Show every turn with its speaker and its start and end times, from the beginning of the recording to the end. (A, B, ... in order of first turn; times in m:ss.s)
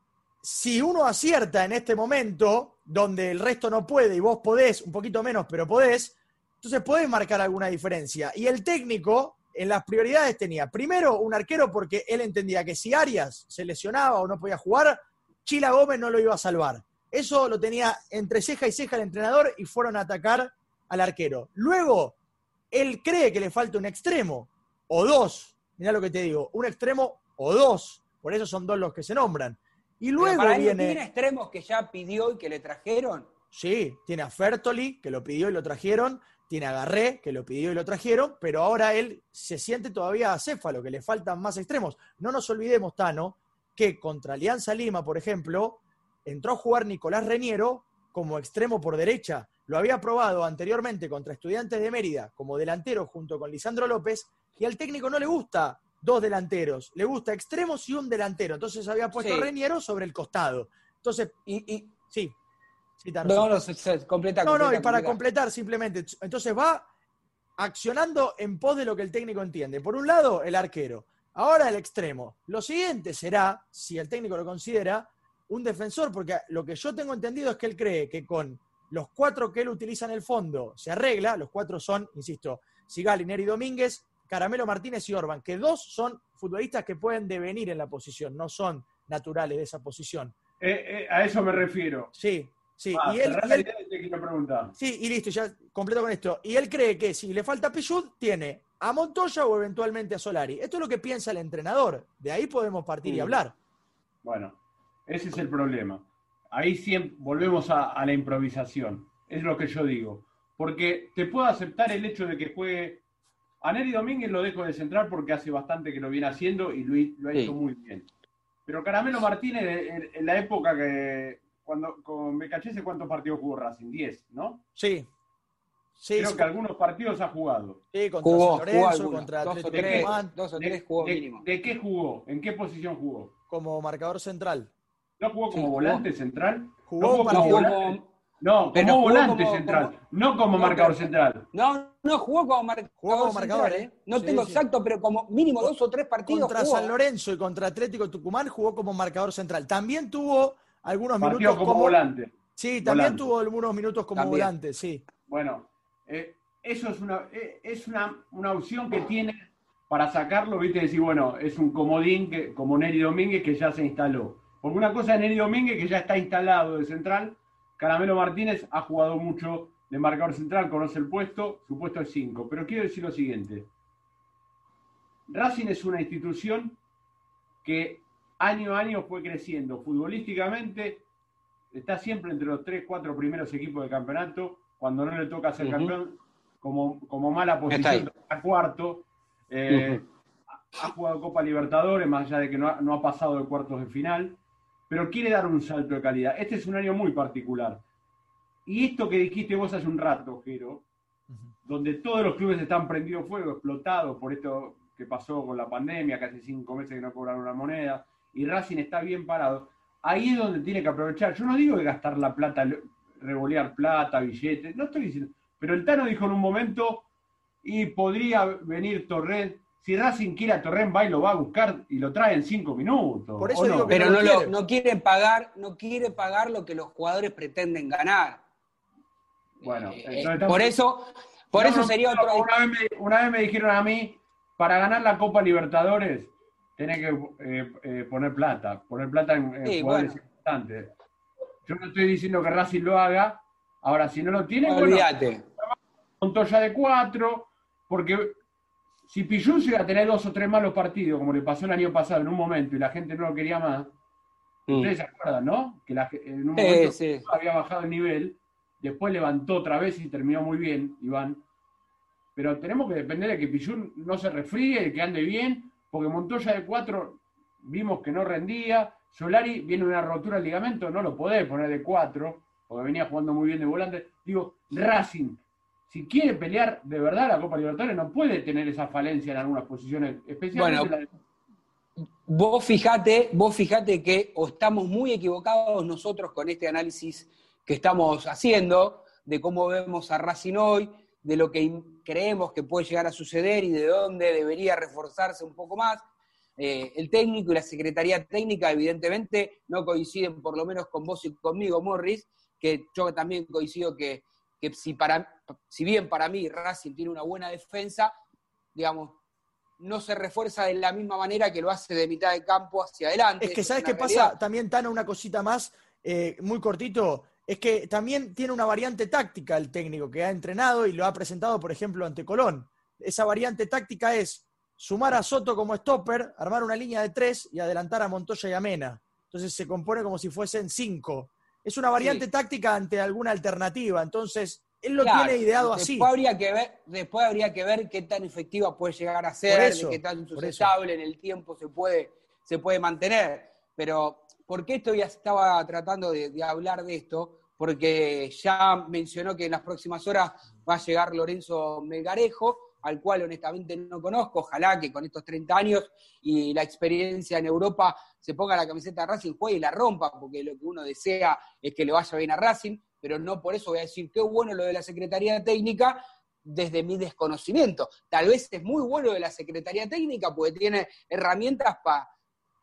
0:00.4-0:22.2 A
0:22.7-0:31.0 A
0:30.2-0:33.3 B
0:33.5-1:01.4 A
0:59.2-0:59.5 B
1:01.5-1:02.0 B
1:03.0-1:03.5 A
1:03.2-1:05.2 B
1:04.4-1:06.9 A
1:07.6-1:30.4 A
1:30.6-1:32.1 C
1:32.1-1:33.7 A
1:32.9-1:34.7 C
1:34.8-1:43.6 A
1:43.0-1:43.4 C
1:44.2-1:53.0 C
1:53.6-1:58.1 C
1:58.7-2:04.6 C
2:04.8-2:05.1 A
2:06.0-2:06.5 A
2:06.2-2:07.8 C
2:07.9-2:10.3 A
2:08.2-2:11.5 B
2:09.7-2:13.3 C
2:13.5-2:14.7 A
2:15.2-2:21.5 C
2:15.5-2:16.0 B
2:16.9-2:17.7 A
2:17.3-2:18.1 B
2:18.7-2:19.9 B
2:20.6-2:26.9 B
2:23.0-2:24.6 A
2:26.2-2:32.0 A
2:31.2-2:33.3 C
2:32.6-2:35.0 A
2:34.2-2:34.5 B
2:35.3-2:53.7 C
2:55.3-2:56.8 C
2:57.6-3:01.0 C
3:01.7-3:10.0 C
3:05.6-3:05.9 B
3:07.7-3:08.1 B
3:09.7-3:10.0 B
3:10.6-3:14.4 C
3:14.9-3:17.8 C
3:18.7-3:20.8 C
3:21.6-3:37.1 C
3:37.6-3:44.0 C
3:43.4-3:44.5 A
3:43.9-3:48.4 B
3:49.6-3:52.5 B
3:49.6-3:50.8 C
3:51.6-4:00.9 C
3:59.6-4:00.2 B
4:01.7-4:08.4 C
4:04.7-4:05.4 B
4:09.1-4:13.9 C
4:14.7-4:14.9 B
4:14.7-4:21.4 C
4:16.6-4:17.3 B
4:22.4-4:41.1 C
4:40.5-4:40.9 B
4:42.3-4:56.0 B
4:56.6-5:08.1 B
5:08.7-5:09.2 B
5:09.8-5:14.4 B
5:13.4-5:36.1 A
5:32.0-5:32.2 B
5:35.0-6:12.1 B
5:39.5-5:40.7 A